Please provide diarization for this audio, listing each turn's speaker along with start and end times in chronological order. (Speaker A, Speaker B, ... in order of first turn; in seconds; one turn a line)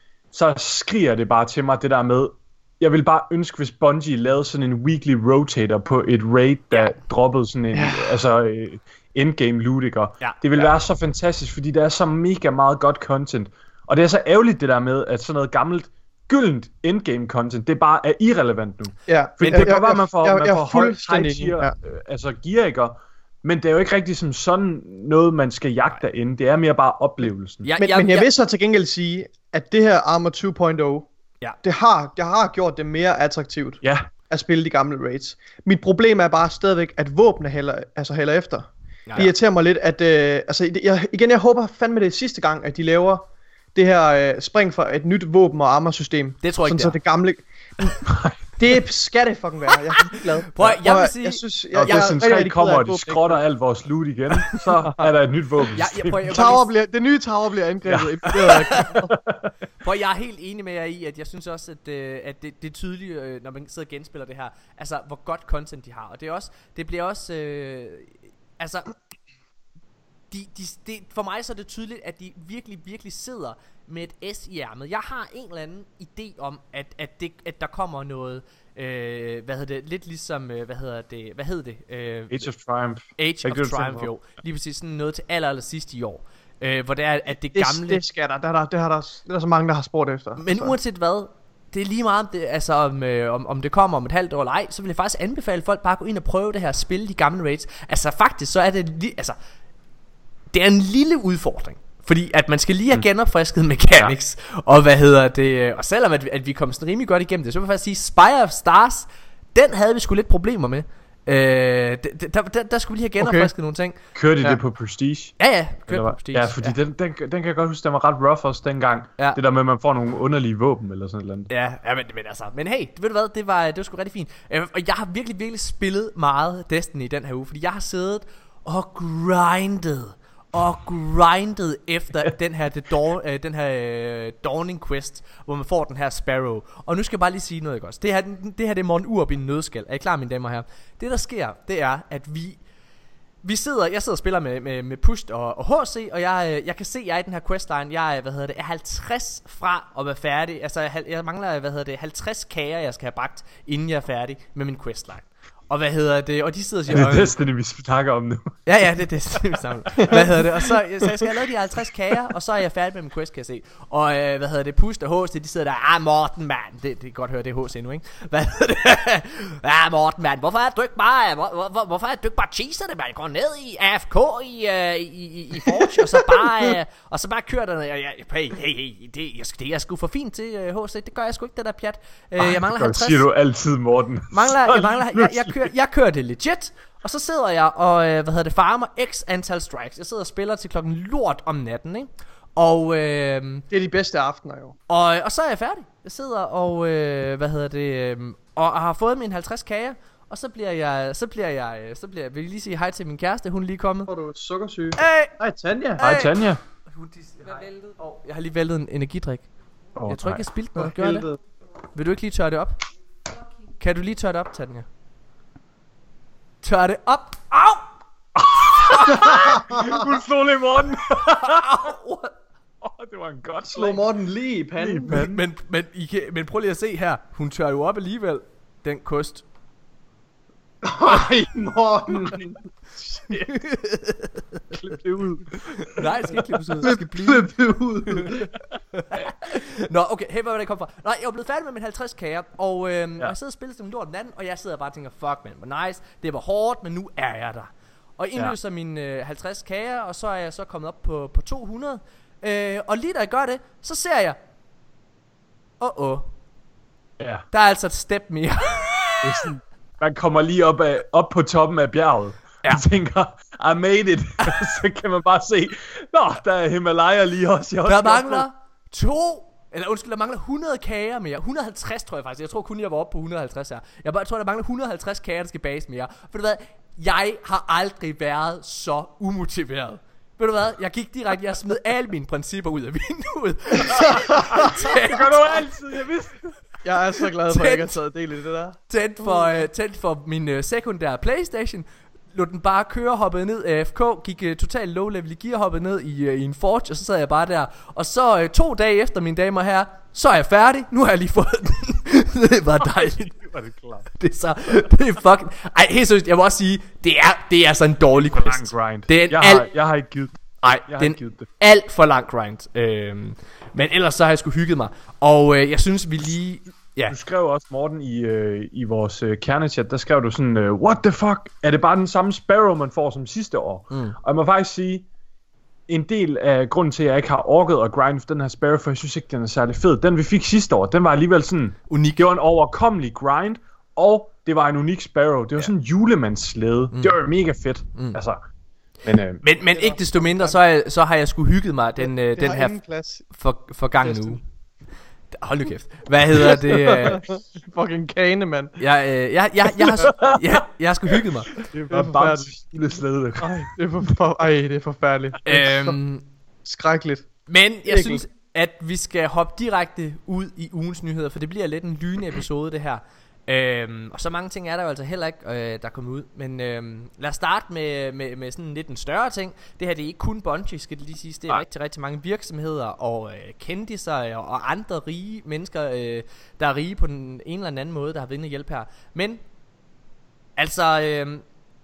Speaker A: 0.3-27.7
Speaker B: 7.7-8.2
Speaker B: 19.1-21.7
Speaker C: 27.6-28.3
Speaker B: 27.8-31.1
Speaker B: 31.6-48.0
Speaker A: 33.8-34.1
Speaker C: 46.4-47.0
Speaker A: 48.1-48.4
Speaker B: 48.6-53.4
Speaker C: 49.8-52.0
Speaker A: 51.7-56.3
Speaker B: 54.8-55.1
Speaker C: 55.8-56.7
Speaker B: 56.3-59.1
Speaker A: 57.9-59.5
Speaker C: 58.4-59.0
Speaker C: 59.8-68.9
Speaker C: 70.3-82.5
Speaker A: 82.3-84.1
Speaker C: 83.2-88.0
Speaker B: 87.5-90.8
Speaker C: 90.4-99.4
Speaker C: 100.5-114.0
Speaker B: 113.2-113.5
Speaker A: 114.2-121.5
Speaker C: 115.4-116.8
Speaker C: 121.5-142.6
Speaker C: 143.4-157.3
Speaker A: 156.9-158.6
Speaker C: 158.7-183.2
Speaker A: 182.4-185.6
Speaker C: 184.3-193.7
Speaker B: 193.7-194.8
Speaker C: 194.9-204.1
Speaker B: 204.1-206.0
Speaker C: 205.0-205.3
Speaker C: 206.0-209.5
Speaker A: 206.0-206.6
Speaker A: 210.0-210.4
Speaker C: 210.1-211.3
Speaker B: 210.8-211.4
Speaker C: 211.9-212.8
Speaker C: 213.8-214.9
Speaker C: 216.6-217.9
Speaker A: 218.3-221.9
Speaker C: 218.8-219.5
Speaker B: 219.6-220.0
Speaker C: 221.4-222.3
Speaker A: 222.8-224.1
Speaker B: 223.7-225.2
Speaker A: 224.8-225.4
Speaker C: 225.1-229.5
Speaker B: 230.8-232.4
Speaker A: 231.0-232.6
Speaker B: 233.2-233.5
Speaker C: 233.4-234.7
Speaker A: 234.7-236.4
Speaker C: 235.8-237.5
Speaker B: 236.8-238.5
Speaker C: 238.9-254.4
Speaker C: 255.8-256.3
Speaker A: 257.2-257.4
Speaker C: 257.5-259.5
Speaker A: 259.2-268.5
Speaker C: 267.9-285.6
Speaker B: 283.9-284.5
Speaker A: 284.5-286.6
Speaker B: 286.8-289.6
Speaker C: 287.5-288.0
Speaker C: 288.9-303.4
Speaker A: 302.8-304.1
Speaker C: 304.2-309.7
Speaker A: 308.3-311.4
Speaker C: 310.6-317.2
Speaker A: 317.1-325.1
Speaker C: 323.9-324.2
Speaker A: 325.9-338.4
Speaker C: 331.9-332.2
Speaker C: 336.9-337.2
Speaker C: 337.9-338.2
Speaker A: 339.0-339.4
Speaker C: 339.4-342.8
Speaker B: 339.7-340.6
Speaker B: 342.0-343.3
Speaker C: 343.3-344.4
Speaker B: 344.0-344.4
Speaker C: 345.3-347.2
Speaker B: 346.4-348.8
Speaker C: 348.8-351.6
Speaker A: 350.0-350.6
Speaker A: 351.1-353.7
Speaker B: 351.9-352.5
Speaker B: 353.4-356.0
Speaker C: 355.4-356.2
Speaker B: 356.6-358.2
Speaker C: 357.5-379.4
Speaker C: 380.6-381.4